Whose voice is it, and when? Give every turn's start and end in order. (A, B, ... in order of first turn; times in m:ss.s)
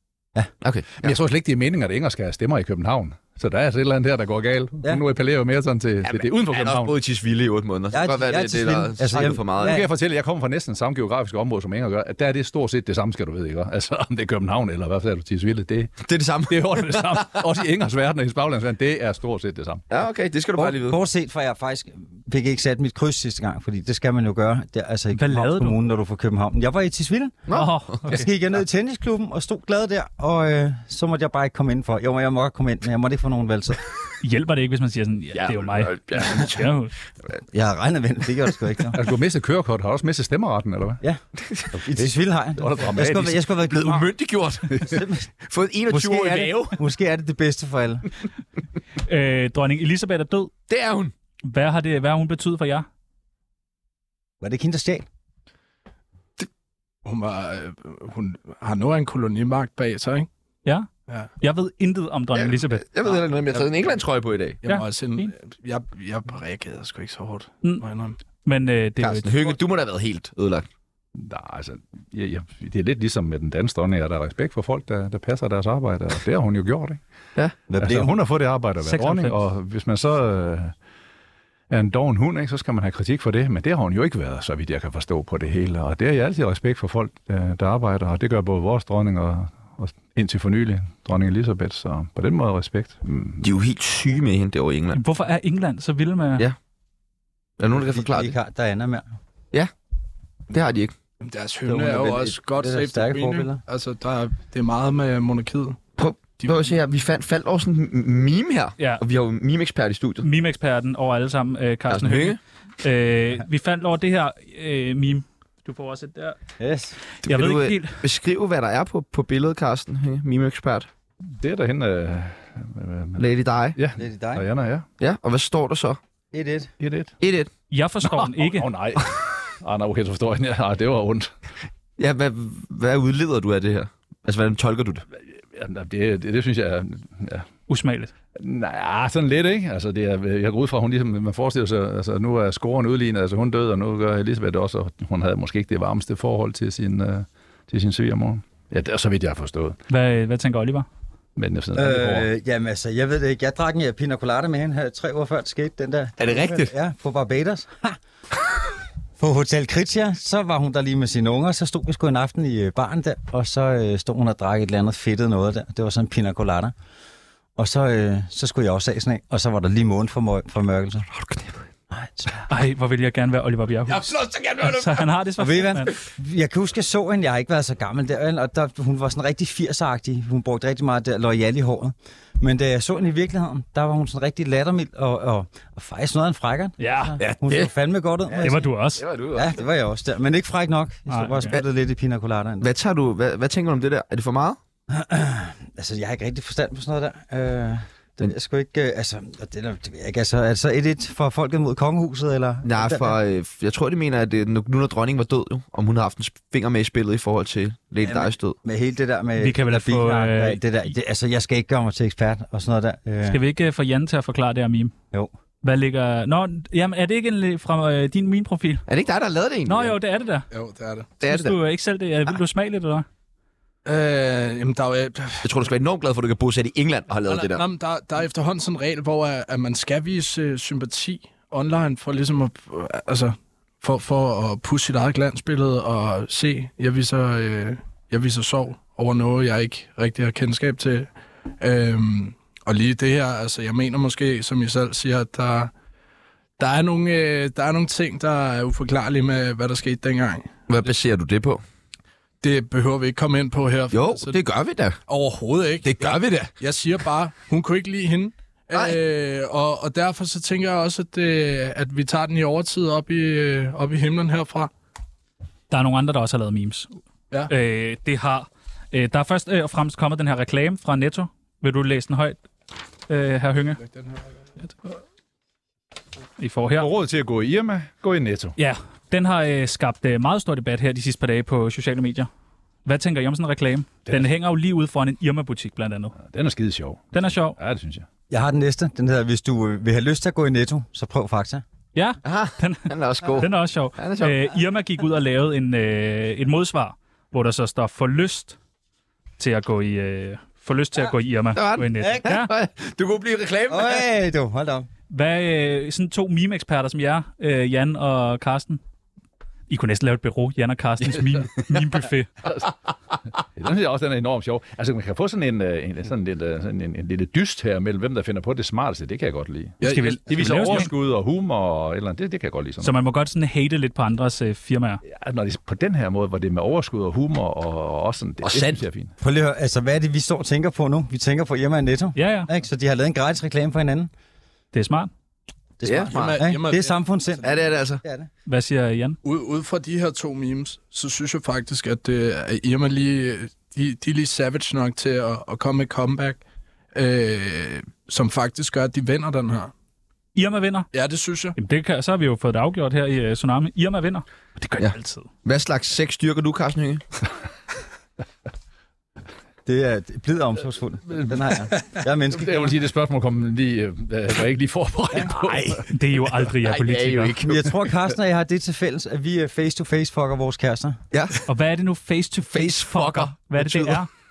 0:00.6-0:01.2 A
0:01.0-0:06.9 B
0:06.0-0:09.8 A
0:07.9-0:09.9 C
0:09.6-0:19.8 B
0:16.0-0:17.4 A
0:19.9-0:21.0 A
0:20.6-0:27.5 C
0:25.2-0:25.8 D
0:27.5-0:28.3 A
0:27.5-0:28.3 D
0:28.1-0:33.8 C
0:34.2-0:36.9 D
0:35.4-0:36.6 A
0:37.5-0:39.0 C
0:38.9-0:41.0 B
0:41.7-0:44.1 C
0:42.6-0:43.4 B
0:43.6-0:46.8 A
0:44.8-0:45.3 C
0:45.9-0:48.1 C
0:49.0-0:50.5 D
0:50.7-0:51.1 A
0:51.5-0:52.9 D
0:54.4-0:55.1 C
0:57.0-1:00.3 E
1:01.4-1:02.8 D
1:02.3-1:04.6 A
1:04.6-1:08.2 E
1:04.7-1:05.3 D
1:08.4-1:09.5 D
1:09.0-1:10.6 A
1:11.2-1:17.0 B
1:17.7-1:18.1 C
1:17.8-1:20.7 B
1:18.8-1:19.4 D
1:21.7-1:33.5 B
1:33.4-1:35.0 A
1:34.9-1:36.4 D
1:37.6-1:38.4 A
1:37.7-1:39.0 C
1:40.5-1:40.9 A
1:41.2-1:45.8 E
1:41.7-1:43.6 C
1:46.0-1:50.2 A
1:46.4-1:46.7 E
1:50.2-1:56.4 D
1:51.9-1:52.4 A
1:56.6-1:57.0 C
1:57.2-1:58.0 D
1:57.2-2:00.9 A
2:01.3-2:03.2 B
2:03.2-2:03.8 A
2:03.8-2:04.9 B
2:04.0-2:04.4 C
2:05.0-2:06.0 A
2:06.3-2:06.7 C
2:06.8-2:07.1 B
2:07.2-2:07.5 A
2:07.7-2:08.7 D
2:08.0-2:11.3 B
2:12.0-2:15.1 A
2:15.4-2:17.5 B
2:17.7-2:18.1 D
2:18.4-2:29.8 B
2:29.9-2:30.9 D
2:31.4-2:32.3 B
2:31.8-2:38.0 C
2:36.2-2:36.7 A
2:39.2-2:46.7 C
2:47.6-2:51.1 C
2:51.1-2:51.6 A
2:51.9-2:52.4 C
2:52.5-2:55.9 D
2:53.9-2:55.1 A
2:55.4-3:08.7 C
3:06.8-3:07.2 D
3:07.2-3:07.7 A
3:08.3-3:09.6 A
3:08.4-3:09.0 D
3:09.3-3:12.7 C
3:11.1-3:11.5 D
3:12.6-3:14.6 A
3:14.9-3:23.2 C
3:22.6-3:28.6 A
3:28.0-3:33.4 C
3:29.4-3:30.6 D
3:33.2-3:34.9 D
3:35.6-3:38.8 D
3:38.9-3:40.0 A
3:39.7-3:40.5 D
3:40.5-3:41.1 E
3:41.2-3:43.1 D
3:41.2-3:41.6 A
3:43.8-3:45.5 E
3:45.4-3:47.6 A
3:47.3-4:05.7 E
4:06.6-4:10.6 E
4:10.7-4:11.6 A
4:12.4-4:14.4 E
4:13.9-4:15.0 A
4:15.1-4:24.7 E
4:15.8-4:16.5 A
4:25.7-4:26.9 D
4:27.5-4:32.4 D
4:33.1-4:33.8 D
4:33.8-4:34.2 E
4:36.4-4:36.9 D
4:36.8-4:38.6 B
4:38.6-4:42.3 D
4:42.8-4:46.2 D
4:44.1-4:44.3 B
4:46.2-4:48.1 B
4:47.1-4:47.6 D
4:48.3-4:51.6 C
4:52.0-4:58.6 D
4:52.2-4:54.4 A
4:59.4-5:02.5 D
5:01.6-5:04.1 A
5:02.0-5:02.3 C
5:03.7-5:04.9 C
5:05.1-5:08.8 D
5:09.7-5:12.3 D
5:12.4-5:12.7 B
5:13.4-5:22.9 B
5:19.8-5:20.9 E
5:19.8-5:20.9 D
5:22.8-5:25.0 D
5:25.1-5:29.1 B
5:28.4-5:28.8 A
5:29.2-5:34.1 C
5:32.2-5:32.5 D
5:34.7-5:35.1 D
5:35.8-5:38.3 C
5:35.8-5:36.5 A
5:36.0-5:37.0 E
5:37.4-5:38.0 A
5:38.5-5:39.2 D
5:39.2-5:46.4 E
5:46.9-5:49.7 E
5:50.4-5:50.9 D
5:50.9-5:51.6 E
5:51.6-5:55.3 D
5:54.8-5:57.0 A
5:59.6-6:02.7 C
6:01.2-6:01.7 B
6:02.3-6:05.9 B
6:05.3-6:05.8 A
6:05.9-6:07.3 D
6:06.6-6:07.7 A
6:07.4-6:11.0 C
6:11.1-6:11.4 A
6:11.5-6:14.1 D
6:12.5-6:14.0 A